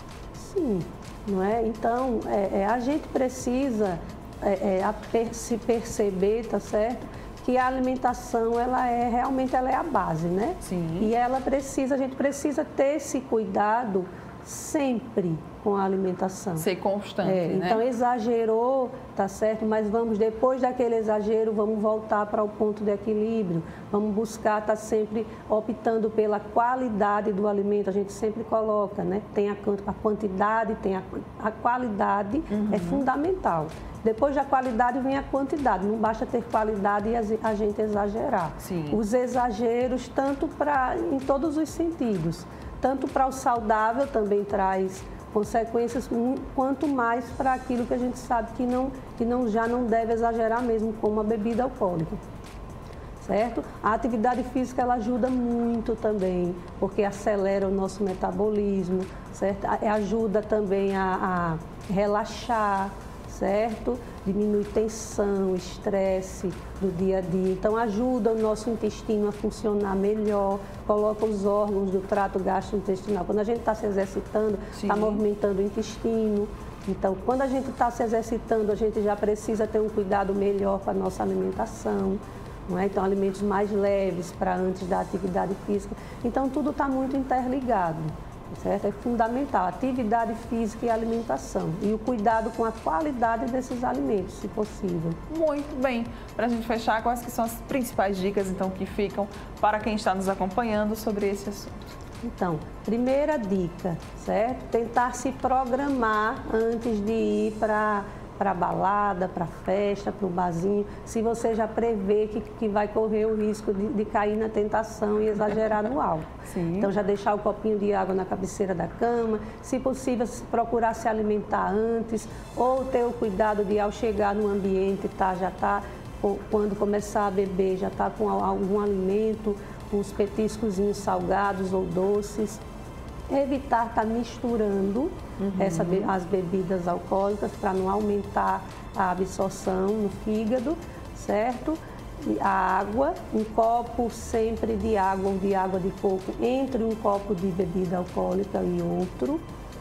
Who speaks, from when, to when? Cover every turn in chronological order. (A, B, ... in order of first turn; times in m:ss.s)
0:00.3-0:16.6 A
0:10.6-0:11.1 B
0:16.6-0:17.8 B
0:17.2-0:52.2 A
0:32.5-0:33.0 B
0:38.6-0:39.0 B
0:53.2-1:35.2 A
1:14.7-1:15.2 B
1:35.3-1:41.9 B
1:42.2-2:12.6 A
1:56.4-1:56.9 B
2:13.3-2:29.4 A
2:15.4-2:16.1 B